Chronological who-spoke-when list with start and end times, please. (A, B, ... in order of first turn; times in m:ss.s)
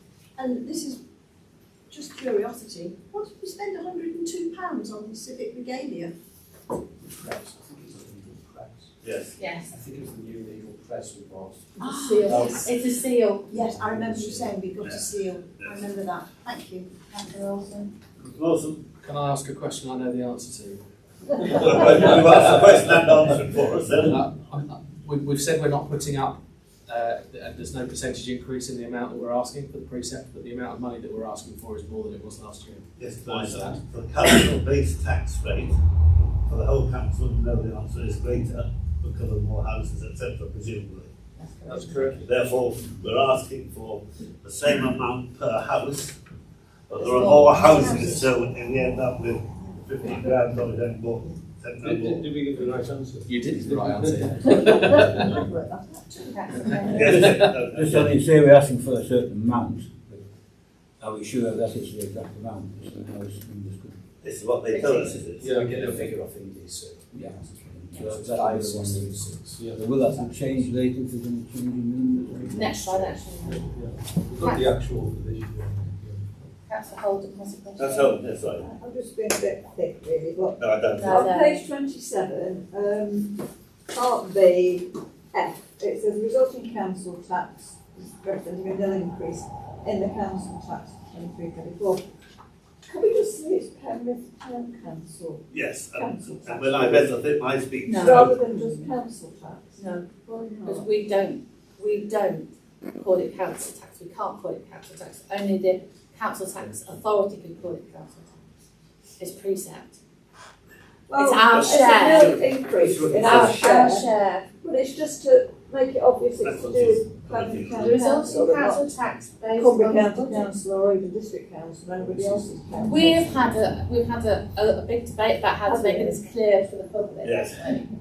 0:00.4-0:01.0 A
0:01.9-0:06.1 A
0:07.2-0:08.9 B
0:09.0-0:09.4 C
0:09.4-0:09.7 D
0:09.7-0:12.6 B
0:11.8-0:12.7 A
0:11.8-0:13.5 D
0:13.5-0:16.9 A
0:13.6-0:14.6 B
0:14.8-0:15.8 C
0:17.1-0:17.9 D
0:18.2-0:18.8 C
0:19.0-0:22.4 E
0:21.4-0:24.2 C
0:24.0-0:33.7 E
0:33.0-0:41.1 C
0:41.4-0:42.2 D
0:41.6-0:42.4 E
0:42.2-0:46.2 C
0:46.9-0:52.3 C
0:47.0-0:48.4 A
0:51.8-0:53.3 F
0:53.2-0:55.4 E
0:54.5-0:57.1 A
0:56.2-0:57.0 D
0:56.9-0:58.1 C
0:56.9-1:00.2 G
0:57.1-0:57.5 E
1:01.0-1:04.0 G
1:04.2-1:05.6 C
1:04.7-1:05.2 D
1:05.4-1:10.7 B
1:05.5-1:06.1 E
1:07.2-1:13.2 G
1:12.5-1:13.6 D
1:14.3-1:15.0 F
1:14.4-1:14.7 D
1:16.7-1:18.2 D
1:17.8-1:18.6 C
1:18.6-1:23.4 H
1:20.6-1:21.2 C
1:21.0-1:21.6 D
1:23.9-1:32.0 H
1:32.8-1:37.1 H
1:35.5-1:38.4 C
1:37.9-1:40.8 H
1:37.9-1:38.8 D
1:40.6-1:48.4 D
1:49.2-1:49.9 D
1:51.1-1:54.1 H
1:51.1-1:52.4 D
1:51.5-1:53.6 C
1:53.1-1:54.4 D
1:54.6-1:59.0 H
1:56.4-1:58.0 C
1:57.7-2:00.5 D
1:59.5-2:03.2 H
2:02.0-2:03.6 B
2:02.8-2:07.9 D
2:05.7-2:06.2 H
2:07.2-2:07.8 C